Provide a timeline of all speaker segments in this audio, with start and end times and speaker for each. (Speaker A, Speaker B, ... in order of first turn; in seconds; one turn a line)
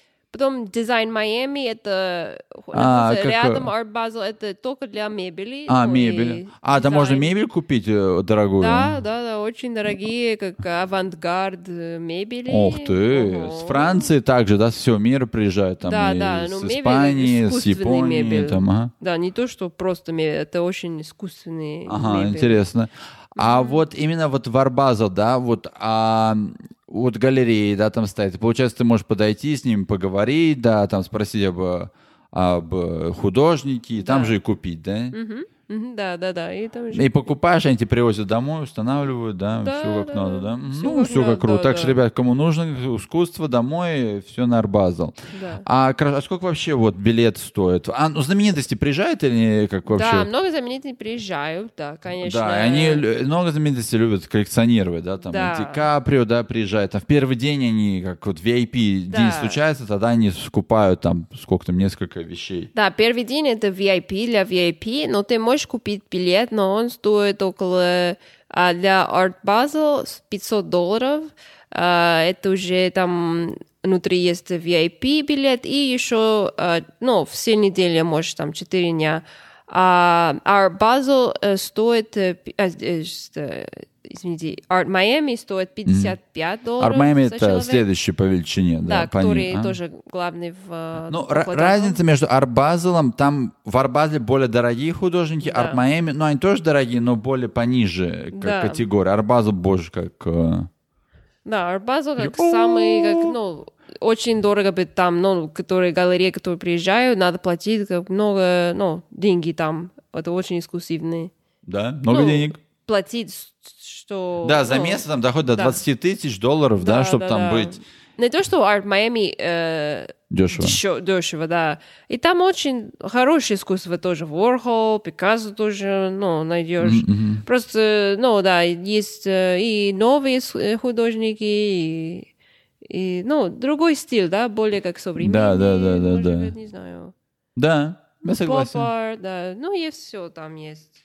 Speaker A: 0.3-7.3
Speaker B: 2.7-3.7
Speaker B: 5.7-9.0
Speaker A: 8.6-14.1
Speaker B: 12.5-18.9
Speaker A: 15.8-22.6
Speaker B: 21.9-35.1
Speaker A: 23.4-23.8
Speaker A: 34.0-34.4
Speaker A: 35.1-37.3
Speaker B: 36.9-50.3
Speaker A: 39.6-42.0
Speaker A: 45.3-45.7
Speaker A: 49.9-53.0
Speaker B: 52.2-62.7
Speaker A: 55.2-55.9
Speaker A: 59.1-59.6
Speaker A: 62.7-87.8
Speaker B: 85.9-86.2
Speaker B: 86.8-89.8
Speaker A: 88.8-92.0
Speaker B: 91.1-100.7
Speaker A: 95.4-95.8
Speaker A: 98.3-98.8
Speaker A: 101.5-111.3
Speaker B: 102.2-103.3
Speaker B: 111.7-112.6
Speaker A: 112.1-115.8
Speaker B: 114.4-117.7
Speaker A: 116.8-132.3
Speaker B: 120.3-120.8
Speaker B: 126.8-127.5
Speaker A: 132.9-137.1
Speaker B: 135.2-136.5
Speaker B: 137.6-138.9
Speaker A: 138.3-140.9